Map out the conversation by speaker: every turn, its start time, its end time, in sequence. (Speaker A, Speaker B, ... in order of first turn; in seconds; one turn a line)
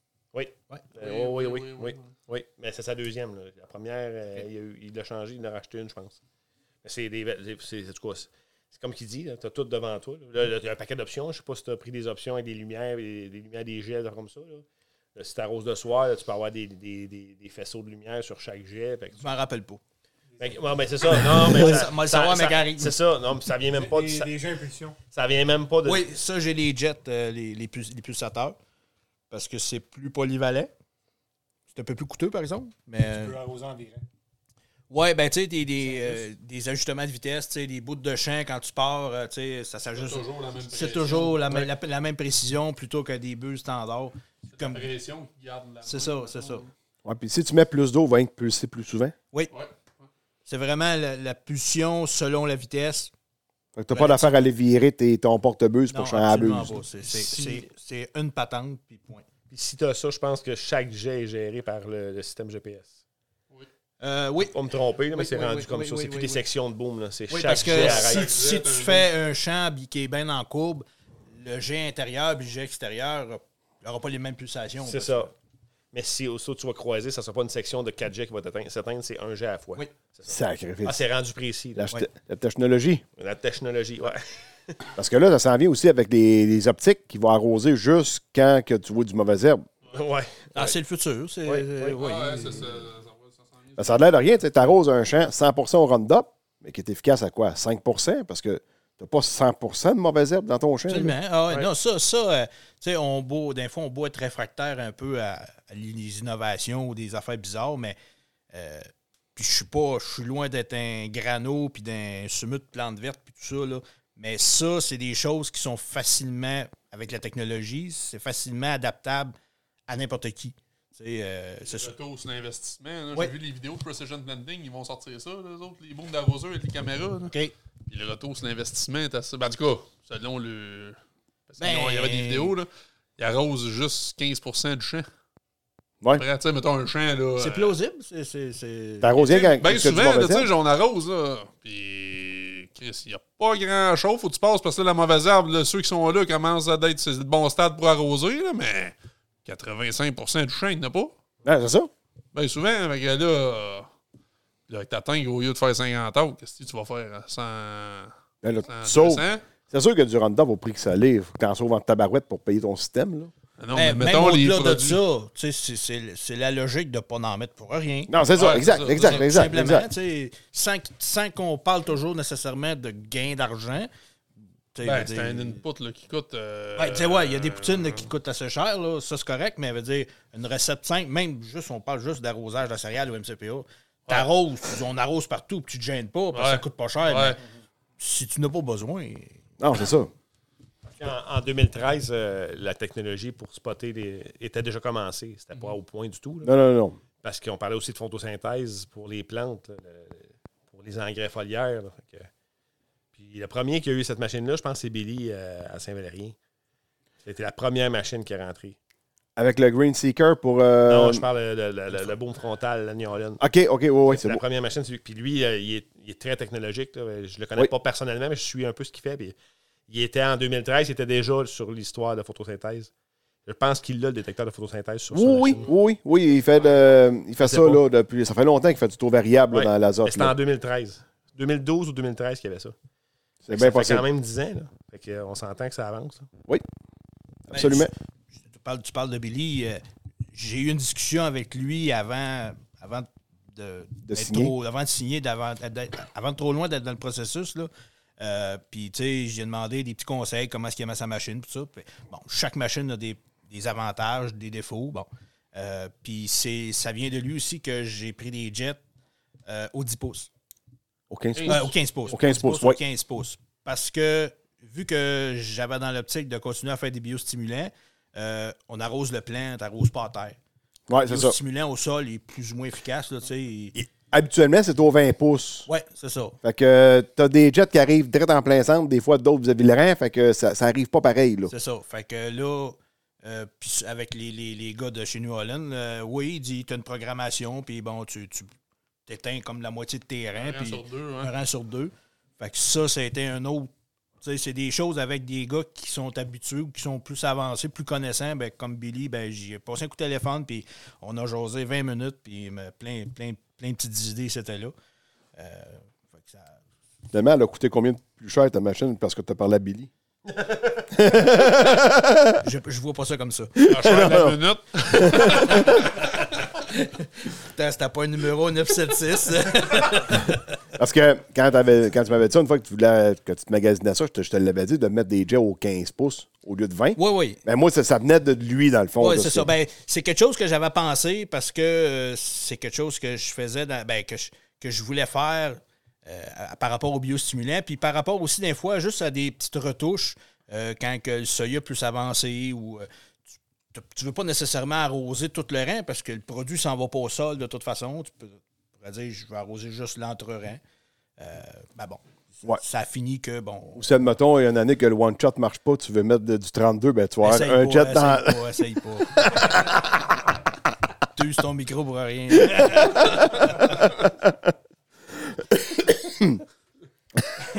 Speaker A: 0.3-6.2
Speaker B: 0.9-2.1
Speaker A: 6.8-19.2
Speaker C: 19.2-19.8
Speaker A: 20.4-24.3
Speaker C: 21.1-22.9
Speaker D: 23.7-25.0
Speaker A: 25.1-26.1
Speaker C: 25.8-28.6
Speaker C: 29.3-30.7
Speaker C: 31.7-33.4
Speaker D: 33.1-34.0
Speaker C: 34.9-44.9
Speaker B: 40.0-41.7
Speaker B: 44.5-46.7
Speaker C: 45.8-46.6
Speaker E: 47.0-49.1
Speaker C: 50.5-53.1
Speaker E: 53.7-56.8
Speaker C: 53.9-54.3
Speaker C: 55.9-59.2
Speaker A: 59.5-63.0
Speaker C: 64.0-64.6
Speaker A: 64.5-68.4
Speaker C: 65.1-66.4
Speaker C: 67.3-75.3
Speaker B: 67.6-69.1
Speaker A: 74.8-75.3
Speaker A: 75.9-81.9
Speaker E: 80.3-81.0
Speaker E: 81.7-83.0
Speaker A: 83.2-84.8
Speaker E: 85.0-89.7
Speaker A: 89.9-90.8
Speaker C: 90.5-92.7
Speaker A: 91.5-92.0
Speaker B: 91.9-94.4
Speaker E: 93.8-101.2
Speaker C: 100.9-108.0
Speaker C: 108.5-119.3
Speaker C: 119.9-121.9
Speaker B: 121.7-127.3
Speaker B: 127.9-135.1
Speaker C: 131.6-132.5
Speaker B: 136.1-137.8
Speaker C: 137.4-139.2
Speaker E: 139.0-140.5
Speaker B: 139.2-151.1
Speaker E: 151.4-151.9
Speaker B: 152.3-153.9
Speaker B: 154.7-158.1
Speaker E: 158.4-163.3
Speaker B: 158.7-159.4
Speaker B: 163.6-165.0
Speaker C: 163.7-168.2
Speaker E: 168.1-169.9
Speaker B: 168.3-169.3
Speaker C: 168.9-173.9
Speaker C: 174.7-175.6
Speaker B: 174.8-178.1
Speaker C: 176.8-187.4
Speaker B: 186.3-187.4
Speaker C: 188.0-189.4
Speaker E: 189.6-190.1
Speaker A: 191.0-196.5
Speaker E: 196.4-197.0
Speaker A: 197.2-202.3
Speaker A: 203.1-206.3
Speaker A: 207.2-208.8
Speaker E: 209.4-211.2
Speaker A: 210.8-213.4
Speaker E: 213.4-214.4
Speaker A: 214.1-219.3
Speaker A: 219.9-222.9
Speaker A: 223.4-225.7
Speaker E: 225.1-230.3
Speaker A: 227.4-227.8
Speaker A: 229.5-232.7
Speaker E: 233.4-234.0
Speaker A: 233.5-236.3
Speaker E: 237.5-237.9
Speaker C: 237.5-258.8
Speaker E: 244.1-244.5
Speaker C: 259.4-260.3
Speaker E: 261.1-262.8
Speaker B: 261.4-261.8
Speaker C: 261.4-270.4
Speaker E: 270.9-271.4
Speaker C: 271.1-273.8
Speaker E: 273.8-275.7
Speaker C: 275.7-276.4
Speaker E: 276.4-281.5
Speaker C: 281.5-288.5
Speaker C: 289.1-304.7
Speaker B: 290.4-291.3
Speaker C: 305.4-306.6
Speaker E: 307.1-309.9
Speaker E: 310.9-312.4
Speaker C: 312.4-313.6
Speaker B: 313.6-315.7
Speaker E: 313.7-315.7
Speaker C: 316.6-320.3
Speaker E: 320.8-329.5
Speaker C: 326.9-327.4
Speaker C: 329.0-342.9
Speaker C: 343.7-350.6
Speaker C: 351.2-353.9
Speaker E: 353.7-360.0
Speaker C: 357.2-359.3
Speaker C: 361.1-363.7
Speaker E: 362.4-364.3
Speaker E: 365.9-366.4